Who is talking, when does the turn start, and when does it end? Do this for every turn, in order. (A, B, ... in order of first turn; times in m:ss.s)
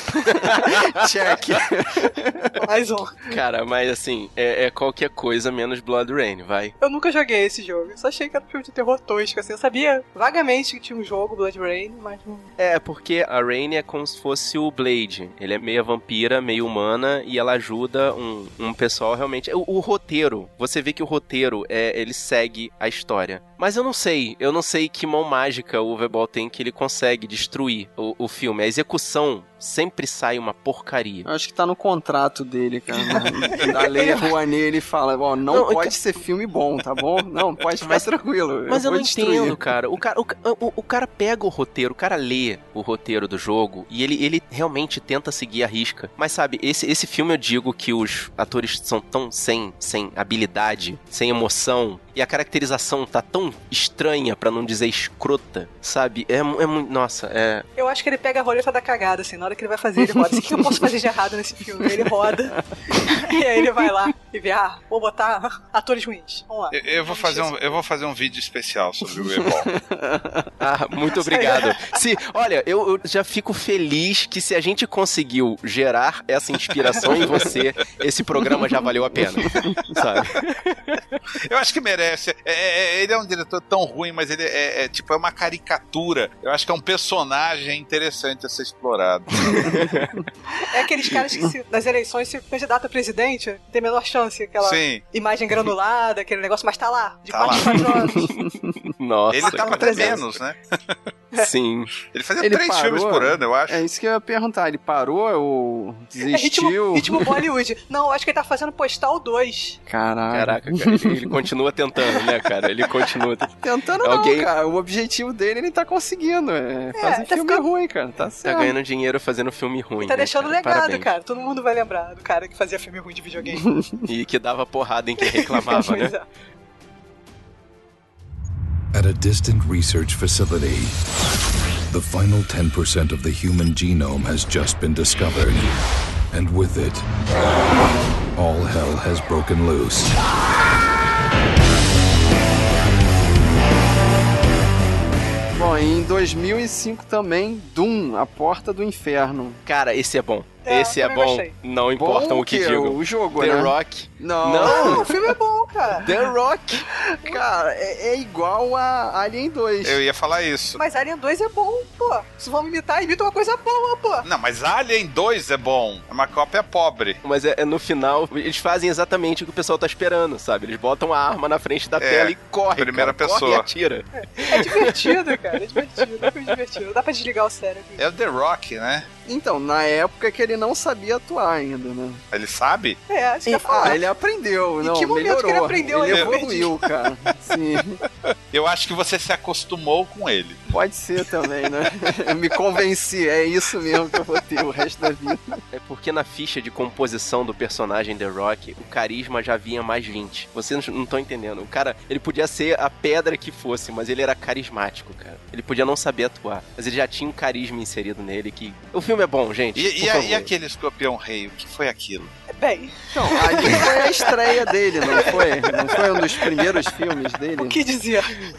0:00.1-0:02.6 A
0:00.3-0:01.6 B
0:02.6-0:03.2 C
0:03.3-0:06.7 B
0:06.8-0:12.5 C
0:12.6-0:31.3 B
0:31.2-0:39.6 A
0:33.6-0:34.3 C
0:35.5-0:35.9 B
0:37.8-0:38.1 B
0:38.7-0:57.7 B
0:57.8-1:07.8 C
1:00.0-1:00.9 A
1:06.7-1:09.7 D
1:09.0-1:10.5 A
1:10.6-1:21.0 B
1:11.2-1:11.8 C
1:21.5-1:29.8 D
1:29.5-1:30.2 B
1:30.7-1:38.3 C
1:34.6-1:35.0 D
1:37.3-1:37.7 D
1:38.2-1:40.2 B
1:39.3-1:41.0 D
1:39.4-1:40.2 C
1:41.4-1:41.9 B
1:42.1-1:43.8 D
1:42.4-1:47.3 A
1:46.2-1:49.8 C
1:49.9-1:51.4 A
1:50.3-1:54.5 B
1:53.6-1:58.8 A
1:57.0-1:57.6 C
1:58.4-2:01.1 B
2:00.0-2:03.7 C
2:03.5-2:03.9 A
2:04.1-2:06.1 B
2:05.2-2:06.3 C
2:08.9-2:11.0 E
2:11.9-2:15.7 E
2:16.3-2:17.1 E
2:18.4-2:20.2 E
2:25.5-2:29.6 A
2:29.7-2:35.1 B
2:30.6-2:31.5 C
2:32.0-2:35.1 A
2:34.6-2:36.1 C
2:36.0-2:36.8 B
2:37.0-2:40.0 A
2:39.8-2:40.8 D
2:40.8-2:44.3 C
2:44.2-2:47.2 D
2:47.2-2:55.1 B
2:52.0-2:53.7 D
2:54.2-2:58.1 C
2:58.0-2:59.1 D
2:59.3-3:02.2 A
3:02.3-3:03.0 D
3:03.1-3:04.0 C
3:03.5-3:08.0 A
3:04.8-3:06.7 C
3:08.5-3:10.6 D
3:10.7-3:15.6 A
3:15.7-3:30.5 B
3:29.8-3:32.3 D
3:32.5-3:34.4 C
3:33.1-3:37.8 A
3:35.1-3:35.4 C
3:35.9-3:36.7 C
3:37.6-3:38.4 C